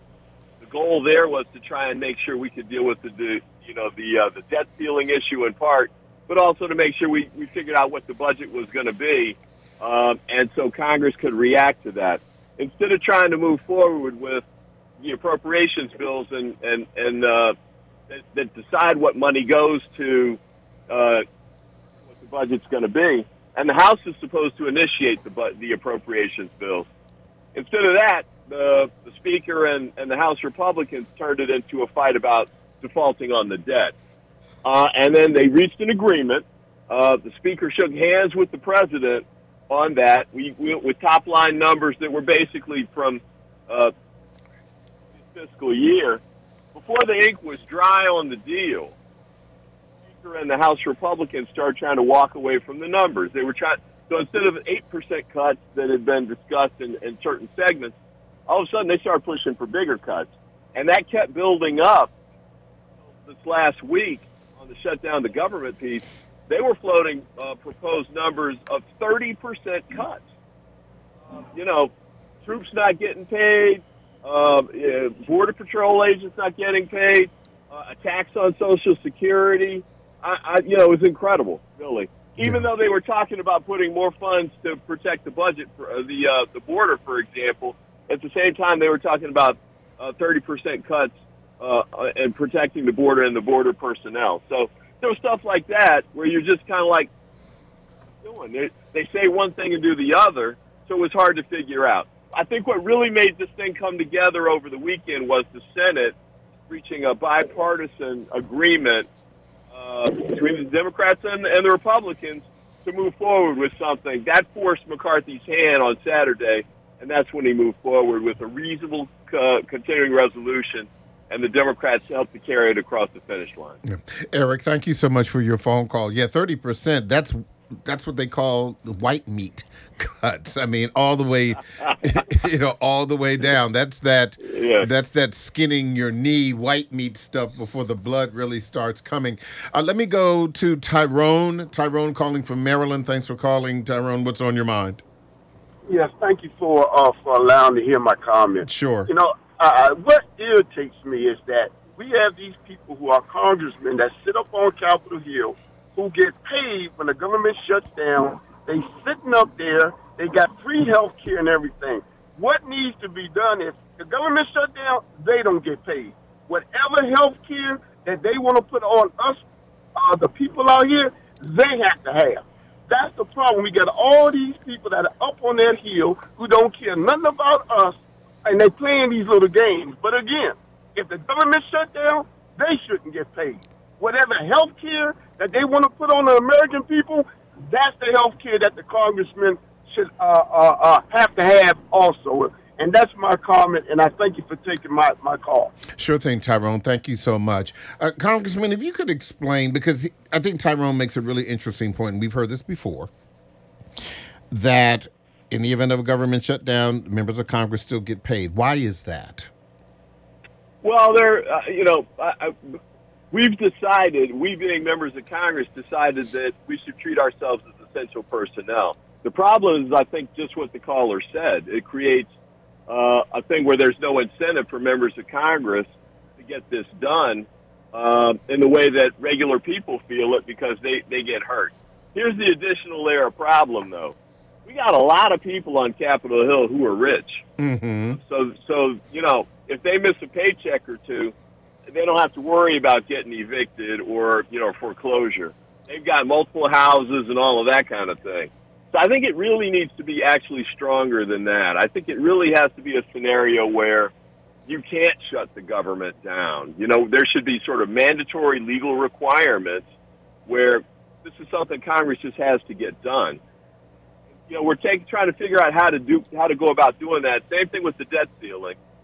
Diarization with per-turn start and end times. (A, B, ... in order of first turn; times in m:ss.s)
0:00.6-0:14.4 A
0:15.0-0:17.6 A
0:18.1-0:21.2 A
0:22.1-0:26.8 A
0:27.5-0:33.9 A
0:34.6-0:43.9 A
0:45.2-0:46.2 A
0:46.7-0:48.9 A
0:50.0-0:58.0 A
0:58.5-1:02.1 A
1:03.0-1:10.2 A
1:11.3-1:11.9 A
1:12.4-1:37.1 A
1:22.4-1:22.6 B
1:38.2-1:46.2 A
1:46.7-1:49.1 A
1:49.7-2:03.8 A
2:03.8-2:25.0 B
2:14.4-2:14.9 A
2:25.9-2:49.4 C
2:28.6-2:29.1 B
2:50.0-3:15.7 C
3:15.9-3:23.1 B
3:24.5-3:29.5 B
3:30.8-3:32.8 A
3:33.3-3:42.3 A
3:42.9-3:54.1 A
3:54.6-3:57.4 A
3:57.6-3:58.2 B
3:58.2-4:01.3 A
4:01.9-4:14.1 A
4:14.6-4:19.9 A
4:20.4-4:23.4 A
4:24.4-4:28.8 A